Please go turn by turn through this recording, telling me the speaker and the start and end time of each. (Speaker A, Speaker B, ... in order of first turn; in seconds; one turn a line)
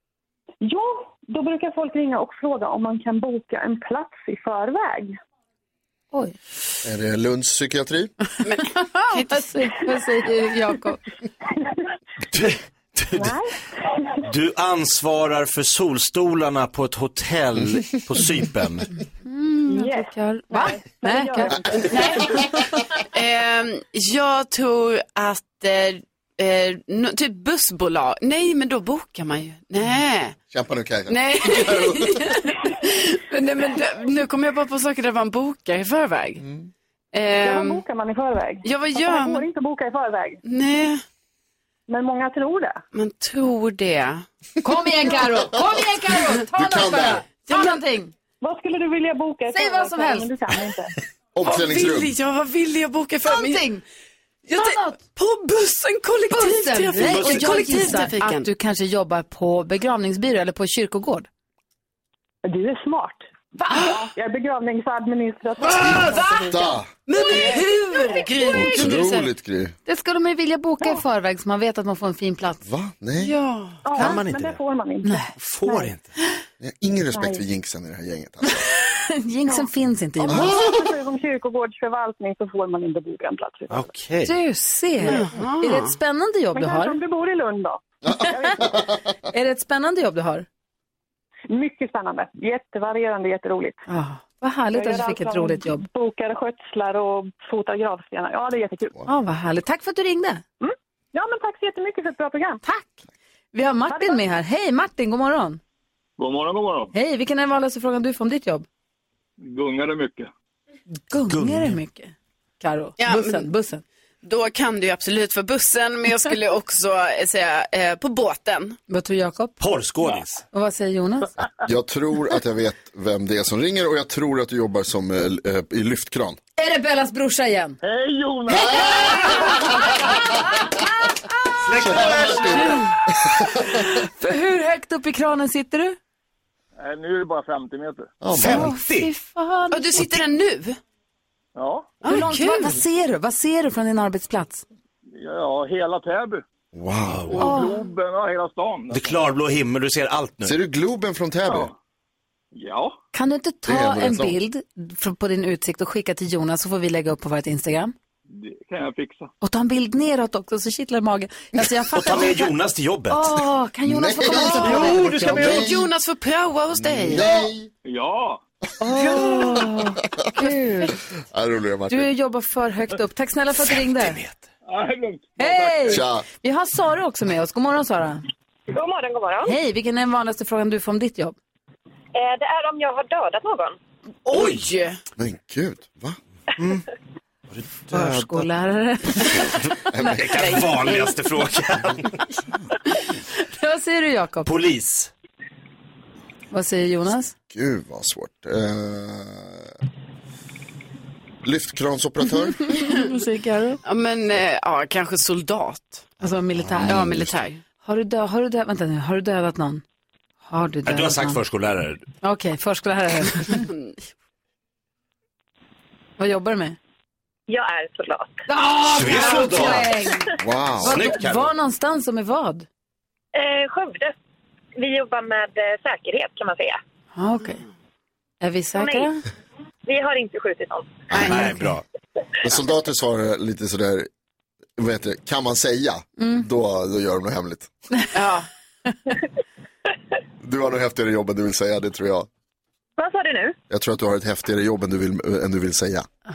Speaker A: 0.6-5.1
Speaker B: 6.8-8.1
Speaker C: 8.4-9.7
Speaker D: 8.6-11.0
Speaker E: 12.3-13.4
Speaker A: 13.2-13.4
Speaker E: 14.2-18.9
Speaker D: 19.2-22.2
Speaker A: 19.7-22.4
Speaker C: 21.9-22.3
Speaker C: 23.1-30.4
Speaker B: 30.5-32.3
Speaker C: 31.1-36.4
Speaker B: 36.4-36.7
Speaker C: 37.1-37.8
Speaker A: 37.4-40.4
Speaker C: 38.6-39.5
Speaker C: 40.5-41.0
Speaker A: 41.9-42.8
Speaker C: 42.9-44.2
Speaker D: 44.6-48.1
Speaker B: 46.5-47.2
Speaker C: 47.5-47.8
Speaker A: 48.4-50.9
Speaker D: 49.5-50.3
Speaker B: 51.3-52.1
Speaker C: 51.4-53.7
Speaker D: 53.2-53.8
Speaker C: 54.5-58.5
Speaker D: 54.5-55.0
Speaker D: 56.3-61.3
Speaker E: 57.0-57.8
Speaker A: 62.4-66.7
Speaker D: 63.6-64.0
Speaker C: 65.6-66.4
Speaker B: 66.5-66.9
Speaker C: 67.0-69.3
Speaker D: 67.2-69.0
Speaker B: 68.5-69.7
Speaker D: 69.8-72.6
Speaker B: 72.6-73.3
Speaker C: 73.2-73.8
Speaker A: 73.8-75.9
Speaker E: 73.9-74.6
Speaker D: 75.0-75.3
Speaker E: 75.3-76.1
Speaker B: 76.6-78.6
Speaker A: 77.1-77.4
Speaker D: 78.5-80.6
Speaker A: 80.2-83.9
Speaker B: 80.3-80.9
Speaker E: 83.7-84.3
Speaker D: 84.2-87.0
Speaker C: 85.0-86.0
Speaker A: 86.5-88.7
Speaker B: 88.1-88.9
Speaker D: 88.1-90.5
Speaker A: 91.5-93.8
Speaker D: 93.9-95.8
Speaker A: 94.7-99.0
Speaker D: 99.0-100.4
Speaker A: 100.6-102.6
Speaker D: 102.6-105.6
Speaker A: 103.9-104.2
Speaker F: 106.2-106.9
Speaker D: 106.9-108.7
Speaker F: 109.4-110.3
Speaker D: 111.1-113.8
Speaker E: 111.2-111.8
Speaker C: 113.0-113.5
Speaker C: 114.2-118.8
Speaker D: 118.9-119.6
Speaker E: 119.6-120.4
Speaker D: 120.5-121.3
Speaker B: 121.7-126.4
Speaker D: 126.6-127.8
Speaker F: 127.8-129.5
Speaker D: 129.1-129.5
Speaker E: 131.6-132.7
Speaker B: 131.8-133.6
Speaker D: 133.6-136.0
Speaker F: 136.8-138.1
Speaker B: 138.2-138.7
Speaker E: 138.3-139.1
Speaker D: 138.4-140.2
Speaker C: 139.7-140.8
Speaker F: 141.6-142.0
Speaker C: 142.0-142.8
Speaker D: 142.0-144.6
Speaker F: 145.1-146.4
Speaker B: 146.7-147.3
Speaker E: 147.1-147.5
Speaker F: 147.3-149.2
Speaker D: 147.4-147.8
Speaker E: 148.9-150.5
Speaker B: 150.4-151.7
Speaker F: 151.5-151.7
Speaker F: 152.5-153.0
Speaker D: 153.1-157.9
Speaker B: 153.7-154.4
Speaker F: 158.3-159.3
Speaker D: 159.4-162.5
Speaker E: 161.9-163.3
Speaker D: 163.1-165.2
Speaker B: 163.8-165.9
Speaker C: 164.3-167.3
Speaker E: 164.4-165.8
Speaker B: 166.8-167.7
Speaker F: 167.8-168.4
Speaker D: 168.8-170.9
Speaker B: 168.9-169.6
Speaker B: 171.2-172.1
Speaker D: 171.9-174.2
Speaker E: 173.7-174.4
Speaker F: 174.7-176.0
Speaker D: 175.4-178.2
Speaker B: 175.9-176.2
Speaker G: 178.7-179.6
Speaker D: 179.4-181.3
Speaker G: 182.1-183.8
Speaker C: 184.2-185.0
Speaker E: 184.3-184.6
Speaker B: 185.2-186.2
Speaker E: 186.6-186.8
Speaker E: 187.5-188.4
Speaker D: 187.9-190.1
Speaker B: 189.9-190.2
Speaker E: 190.0-192.1
Speaker C: 190.4-191.2
Speaker D: 193.4-194.5
Speaker E: 194.4-195.1
Speaker D: 196.5-197.3
Speaker B: 197.5-199.7
Speaker B: 201.4-202.7
Speaker D: 202.7-203.8
Speaker C: 203.8-206.2
Speaker D: 206.2-206.9
Speaker C: 206.8-207.6
Speaker B: 206.9-207.3
Speaker D: 207.8-209.8
Speaker D: 210.4-211.4
Speaker E: 210.8-212.0
Speaker D: 212.2-213.7
Speaker D: 216.2-216.8
Speaker G: 217.5-218.3
Speaker D: 218.5-220.3
Speaker E: 218.8-219.9
Speaker B: 220.4-221.0
Speaker E: 220.8-221.5
Speaker D: 220.8-222.7
Speaker G: 223.3-224.1
Speaker G: 224.8-226.8
Speaker D: 227.2-227.6
Speaker D: 228.4-229.2
Speaker G: 228.7-229.1
Speaker G: 229.9-231.0
Speaker C: 231.1-231.6
Speaker E: 231.2-231.8
Speaker B: 232.4-234.1
Speaker B: 234.8-237.7
Speaker D: 236.2-236.4
Speaker C: 238.1-238.5
Speaker B: 240.4-242.3
Speaker G: 243.0-243.6
Speaker B: 243.7-246.1